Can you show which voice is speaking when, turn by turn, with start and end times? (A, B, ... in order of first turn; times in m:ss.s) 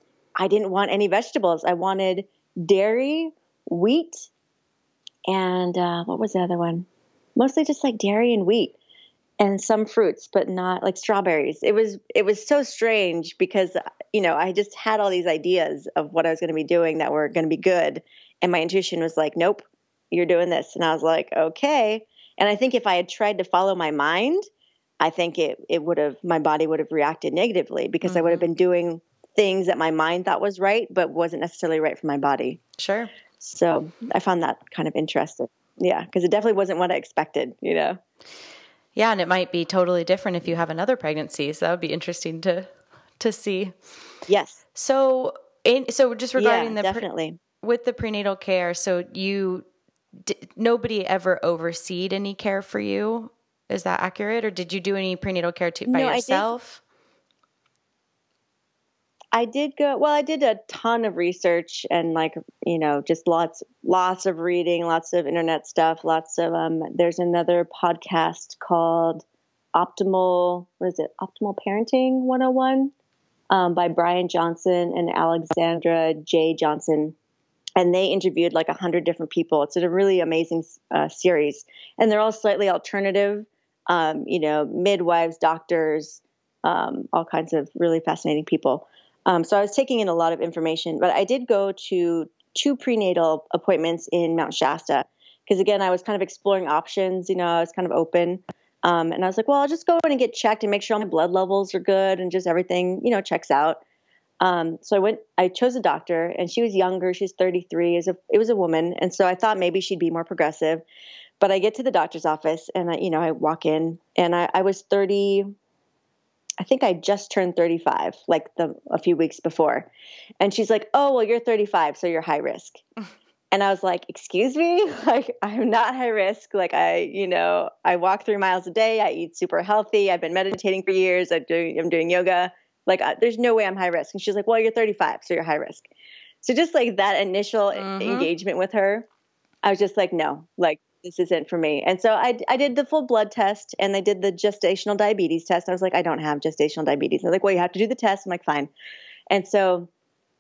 0:00.4-0:04.3 A
0:05.3-0:08.8 A
0:09.4-0:24.4 A
0:25.0-0:32.6 A
0:28.0-0:28.5 B
0:32.8-0:33.1 B
0:33.4-0:38.0 A
0:39.0-0:43.8 B
0:44.3-0:44.6 A
0:44.8-0:47.0 B
0:46.4-0:47.4 A
0:47.6-0:56.8 B
0:55.9-0:56.5 A
0:59.3-1:09.2 A
1:09.8-1:12.9 A
1:13.5-1:17.2 A
1:17.8-1:43.8 A
1:44.4-1:50.8 A
1:51.4-1:55.5 A
1:56.6-2:02.8 A
2:03.5-2:15.9 A
2:16.4-2:19.1 A
2:17.7-2:18.3 B
2:19.6-2:28.7 A
2:29.3-2:29.9 A